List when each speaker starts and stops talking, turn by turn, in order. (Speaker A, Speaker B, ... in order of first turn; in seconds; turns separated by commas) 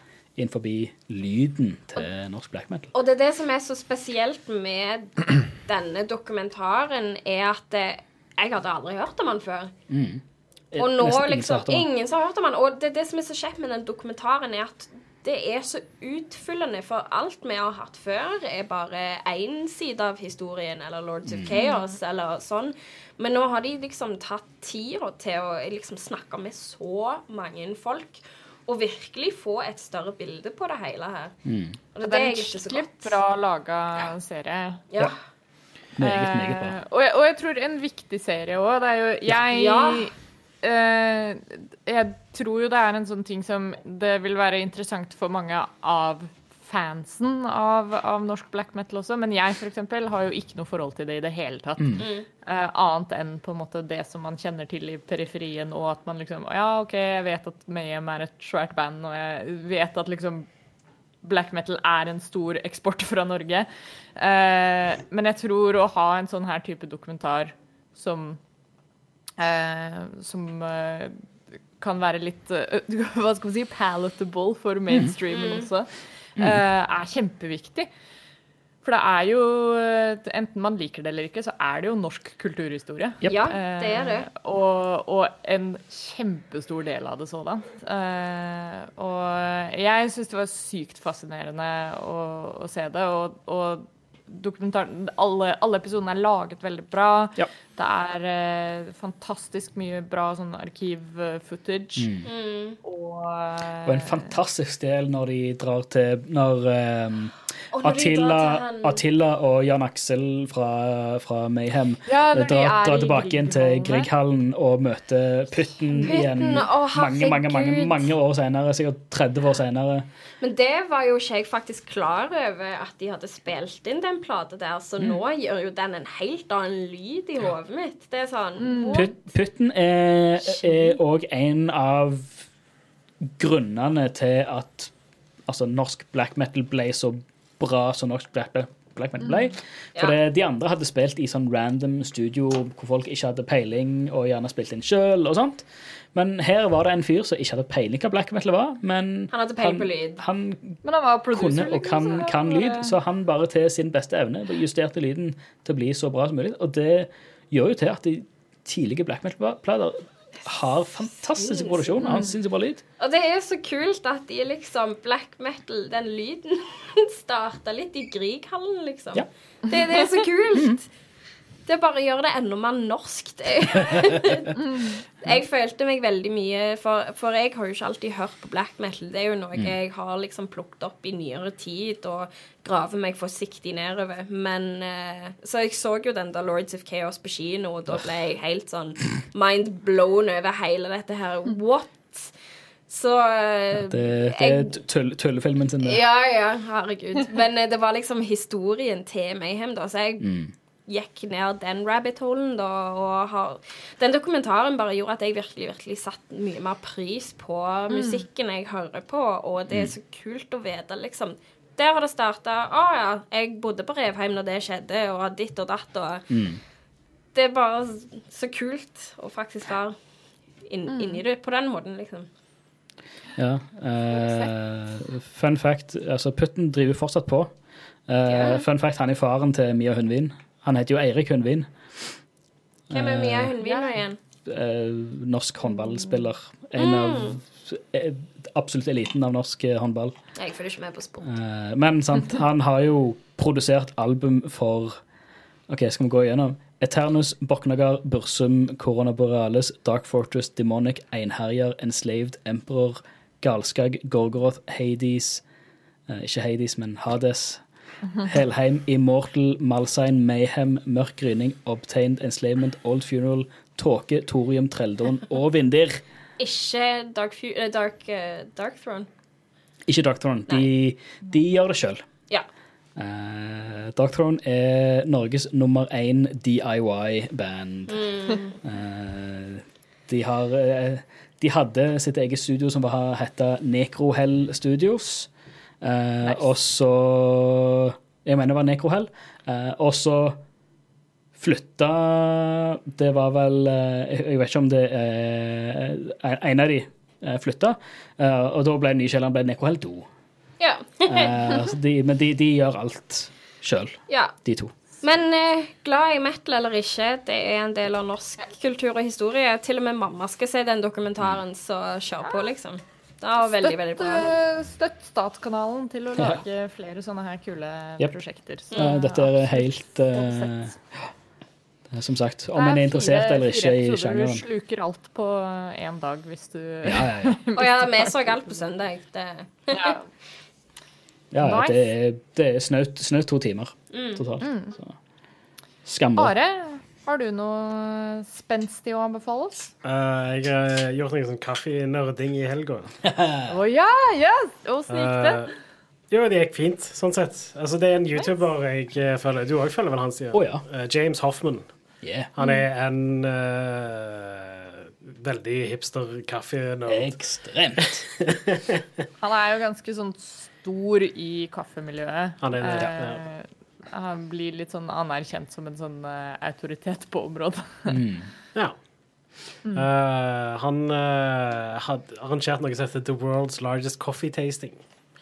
Speaker A: 0.4-2.9, Speaker B: 2.9-9.7, Speaker A: 9.9-11.8, Speaker B: 10.8-33.2, Speaker A: 21.3-21.5, Speaker C: 21.5-21.9, Speaker A: 31.4-31.8, Speaker C: 32.0-34.8, Speaker A: 36.0-36.8, Speaker C: 36.0-60.5, Speaker B: 39.4-40.1, Speaker A: 51.8-52.1, Speaker B: 52.0-52.3, Speaker C: 61.2-68.4, Speaker C: 69.4-71.2, Speaker C: 71.8-77.9, Speaker A: 74.9-75.1, Speaker B: 75.3-75.7, Speaker A: 76.4-76.6, Speaker C: 78.8-102.1, Speaker A: 83.2-83.5, Speaker B: 83.2-84.3, Speaker A: 102.0-102.3, Speaker B: 102.3-102.8, Speaker C: 102.8-104.3, Speaker A: 103.8-120.0, Speaker B: 107.7-109.0, Speaker C: 112.1-114.1, Speaker B: 116.0-118.1, Speaker B: 120.4-129.3, Speaker C: 128.6-129.1, Speaker A: 128.9-132.4, Speaker B: 130.5-130.9, Speaker A: 133.4-134.9, Speaker A: 135.5-150.8, Speaker C: 139.2-139.5, Speaker B: 149.3-150.2, Speaker C: 150.8-152.9, Speaker A: 151.3-162.8, Speaker B: 161.3-162.2, Speaker C: 162.0-162.3, Speaker B: 163.0-170.9, Speaker C: 169.7-170.2, Speaker A: 170.5-170.8, Speaker B: 171.7-192.3, Speaker C: 174.6-174.9, Speaker B: 192.9-194.8, Speaker A: 193.8-196.0, Speaker B: 195.8-200.3, Speaker A: 200.2-200.5, Speaker B: 200.9-216.3, Speaker C: 207.9-208.2, Speaker A: 209.7-209.9, Speaker A: 216.3-216.6, Speaker B: 217.3-220.0, Speaker B: 220.6-222.3, Speaker C: 220.9-221.2, Speaker A: 223.4-227.5, Speaker C: 224.1-224.5, Speaker A: 228.1-231.7, Speaker B: 228.2-228.6, Speaker A: 232.9-233.5, Speaker B: 232.9-234.2, Speaker C: 233.6-234.0, Speaker A: 234.4-240.1, Speaker C: 235.8-236.1, Speaker B: 236.8-237.4, Speaker B: 240.3-241.3, Speaker A: 241.2-245.0, Speaker A: 245.7-255.4, Speaker A: 256.1-257.6, Speaker A: 258.2-266.0, Speaker B: 266.4-269.1, Speaker A: 269.9-272.0, Speaker A: 273.0-278.0, Speaker B: 277.9-278.6, Speaker A: 278.6-285.3, Speaker A: 285.8-290.4, Speaker A: 291.4-300.1, Speaker B: 300.6-301.6, Speaker A: 301.1-304.7, Speaker B: 304.1-304.4, Speaker B: 305.0-314.3, Speaker C: 313.6-320.7, Speaker A: 316.2-316.4, Speaker A: 318.7-321.1, Speaker A: 321.9-324.4, Speaker C: 322.6-328.1, Speaker A: 326.9-327.4, Speaker B: 327.5-330.0, Speaker C: 329.7-330.0, Speaker A: 331.3-335.0, Speaker C: 331.4-331.9, Speaker B: 333.9-334.2, Speaker C: 334.4-334.7, Speaker A: 335.9-336.3, Speaker C: 336.2-339.7, Speaker D: 339.8-342.9, Speaker A: 343.1-343.5, Speaker C: 343.5-345.4, Speaker D: 344.9-345.5, Speaker D: 346.1-351.7, Speaker A: 350.3-350.6, Speaker A: 352.0-352.3, Speaker D: 352.4-357.1, Speaker A: 356.9-358.0, Speaker D: 358.0-358.8, Speaker C: 359.2-368.0, Speaker D: 362.4-363.2, Speaker A: 367.9-368.3, Speaker D: 369.7-374.8